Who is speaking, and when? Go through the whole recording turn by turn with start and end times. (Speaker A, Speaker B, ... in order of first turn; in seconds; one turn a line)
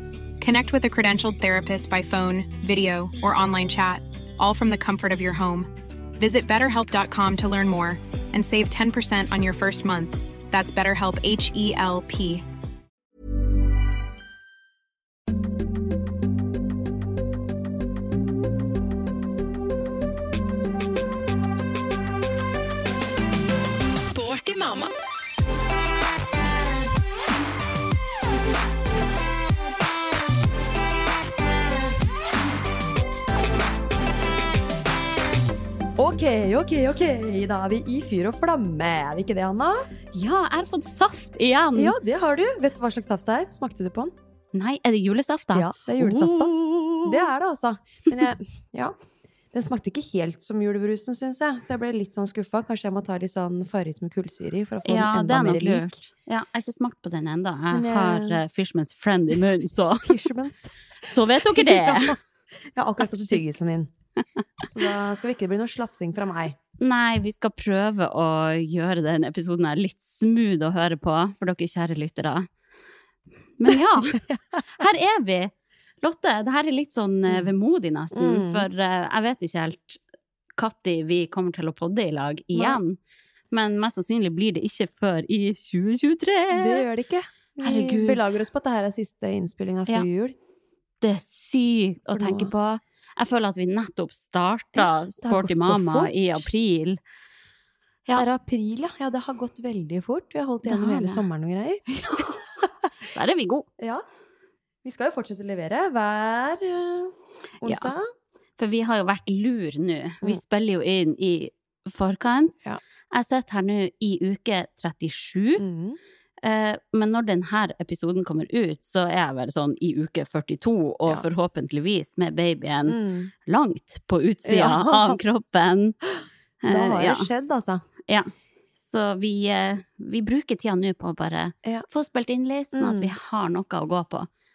Speaker A: 0.4-12.4
Speaker A: 24.1-24.9
Speaker B: 36.0-39.9
Speaker C: 40.1-42.0
Speaker B: 41.7-44.1
Speaker C: 44.5-47.3
Speaker B: 45.5-49.0
Speaker B: 49.5-56.0
Speaker C: 54.8-60.1
Speaker B: 57.7-58.4
Speaker B: 60.0-63.9
Speaker C: 61.0-62.2
Speaker B: 64.6-66.6
Speaker C: 66.8-72.5
Speaker C: 73.6-74.2
Speaker B: 73.7-74.8
Speaker C: 74.7-80.0
Speaker B: 78.1-78.7
Speaker C: 80.5-83.0
Speaker B: 82.5-82.8
Speaker C: 83.5-86.8
Speaker B: 86.5-90.3
Speaker C: 87.6-88.4
Speaker C: 91.0-97.0
Speaker B: 92.1-92.5
Speaker B: 94.7-96.5
Speaker B: 98.1-102.9
Speaker C: 100.6-101.2
Speaker C: 102.1-102.4
Speaker C: 103.0-103.7
Speaker B: 103.8-104.0
Speaker B: 104.8-108.1
Speaker C: 107.6-107.9
Speaker C: 108.6-115.6
Speaker B: 115.6-116.0
Speaker C: 116.4-126.0
Speaker B: 122.9-123.3
Speaker B: 124.4-125.2
Speaker C: 126.6-127.3
Speaker B: 126.7-127.8
Speaker C: 128.1-134.3
Speaker B: 132.7-133.1